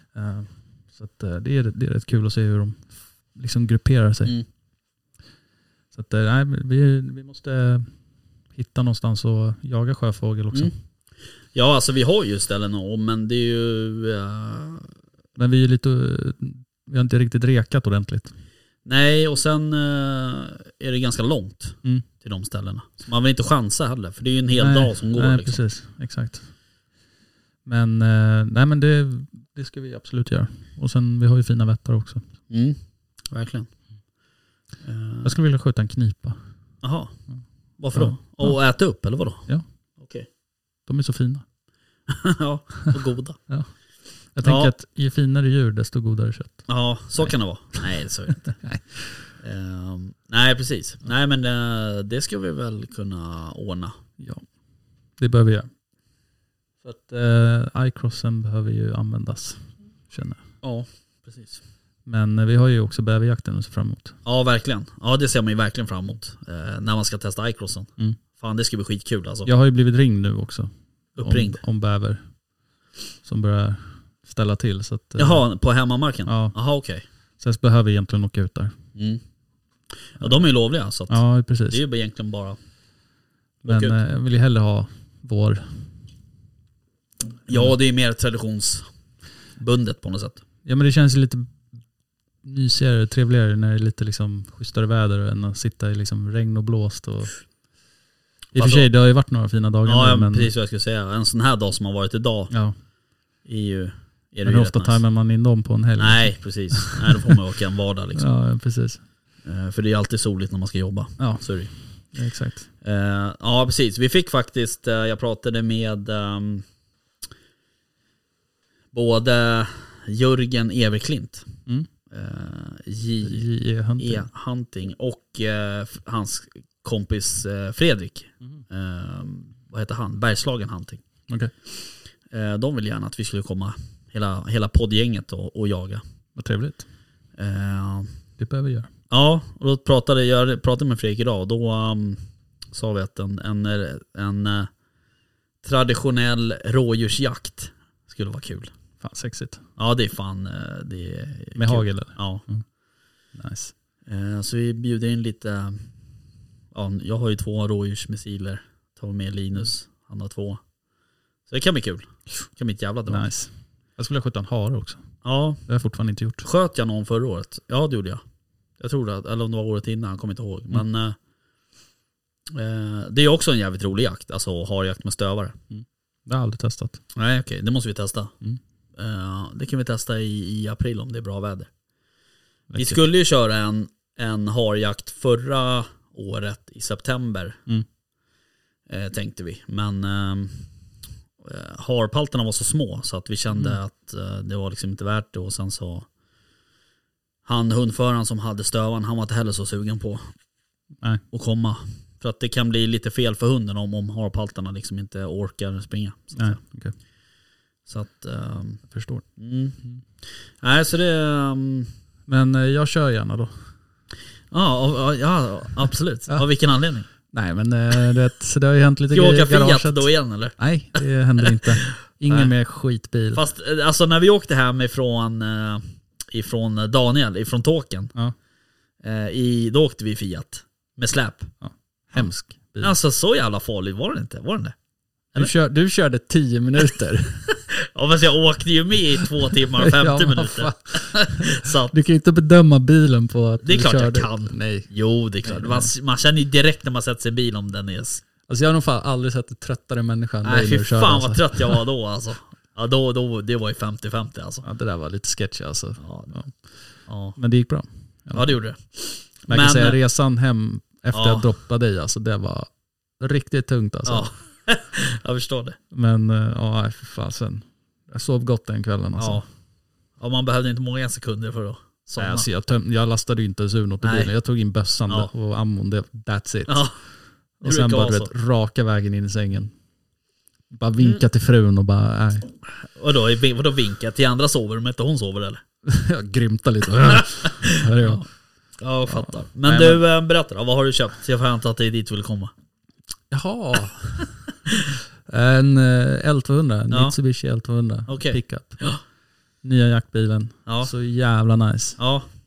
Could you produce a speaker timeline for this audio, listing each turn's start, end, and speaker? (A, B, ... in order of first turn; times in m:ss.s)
0:00.1-0:04.4 A
0:05.9-0:07.9 A
0:08.5-0:10.7 A
0:11.5-0:14.9 B
0:15.4-0:18.3 A
0:18.8-0:25.6 B
0:24.6-0:26.5 A
0:27.6-0:32.2 A
0:32.5-0:32.8 B
0:33.3-0:33.7 B
0:34.8-0:35.4 B
0:35.2-0:36.4 A
0:36.8-0:37.2 B
0:37.8-0:40.3 B
0:37.9-0:38.6 A
0:40.9-0:41.4 A
0:42.1-0:43.4 B
0:44.3-0:47.3 A
0:44.4-0:44.7 B
0:46.7-0:48.6 B
0:48.6-0:49.3 A
0:49.4-0:54.0 B
0:54.2-0:54.4 A
0:55.2-0:55.7 A
0:56.8-1:00.4 A
1:00.6-1:01.6 B
1:02.1-1:04.2 A
1:04.2-1:09.5 B
1:09.5-1:12.2 A
1:11.2-1:11.6 B
1:13.2-1:15.4 A
1:15.2-1:17.0 B
1:16.3-1:16.6 A
1:17.4-1:18.8 A
1:19.0-1:19.2 B
1:20.1-1:22.6 B
1:21.1-1:21.8 A
1:23.6-1:25.9 A
1:23.6-1:24.0 B
1:27.5-1:28.9 B
1:29.6-1:30.4 B
1:30.6-1:31.6 A
1:32.4-1:37.4 A
1:38.5-1:40.5 A
1:38.6-1:38.9 B
1:39.8-1:42.5 B
1:42.5-1:42.8 A
1:43.4-1:45.0 B
1:44.4-1:47.4 A
1:46.0-1:48.3 B
1:48.2-1:49.0 A
1:49.4-1:51.7 B
1:51.2-1:52.7 A
1:52.8-1:56.6 B
1:58.9-2:01.5 B
2:02.1-2:03.5 B
2:03.2-2:04.3 A
2:04.0-2:11.0 B
2:12.3-2:16.0 B
2:16.4-2:16.9 A
2:17.4-2:18.1 B
2:18.4-2:18.9 A
2:19.1-2:24.7 B
2:25.6-2:28.7 B
2:29.0-2:29.6 A
2:29.8-2:32.5 B
2:31.6-2:32.6 A
2:33.4-2:33.7 A
2:34.1-2:35.9 B
2:36.7-2:40.6 B
2:41.5-2:43.3 B
2:43.1-2:45.0 A
2:45.2-2:45.6 B
2:45.7-2:46.4 A
2:46.4-2:48.2 B
2:48.8-2:51.2 B
2:52.5-2:55.6 B
2:55.7-2:57.0 A
2:57.1-2:58.3 B
2:59.0-3:01.7 B
3:02.7-3:03.0 A
3:02.8-3:07.6 B
3:08.9-3:10.7 B
3:11.4-3:16.1 B
3:17.4-3:20.3 B
3:21.3-3:26.6 B
3:26.4-3:26.9 A
3:27.9-3:28.8 B
3:28.9-3:29.2 A
3:29.4-3:31.9 B
3:32.3-3:33.6 A
3:34.5-3:37.1 B
3:37.3-3:43.4 A
3:39.1-3:42.5 B
3:43.3-3:48.1 B
3:49.0-3:51.5 B
3:51.6-3:52.9 A
3:52.8-3:54.8 B
3:55.4-3:57.5 A
3:57.5-4:02.0 B
3:59.8-4:04.9 A
4:03.6-4:08.2 B
4:05.4-4:05.9 A
4:08.5-4:11.8 A
4:10.4-4:14.6 B
4:14.6-4:16.6 A
4:16.0-4:16.4 B
4:17.0-4:17.4 B
4:17.4-4:18.6 A
4:18.3-4:20.0 B
4:19.5-4:24.3 A
4:21.1-4:21.5 B
4:24.1-4:25.8 B
4:25.9-4:29.4 A
4:29.2-4:29.5 B
4:30.2-4:32.5 B
4:32.2-4:36.9 A
4:34.0-4:34.3 B
4:36.7-4:37.0 B
4:37.6-4:39.7 A
4:37.6-4:38.3 B
4:40.7-4:42.5 A
4:42.7-4:45.6 B
4:45.8-4:48.2 A
4:47.4-4:48.3 B
4:48.8-4:52.5 B
4:49.1-4:50.0 A
4:53.3-4:54.4 A
4:55.3-4:58.8 A
4:56.9-4:57.2 B
4:58.1-4:59.0 B
4:59.6-5:02.0 A
5:00.6-5:00.9 B
5:02.0-5:02.3 B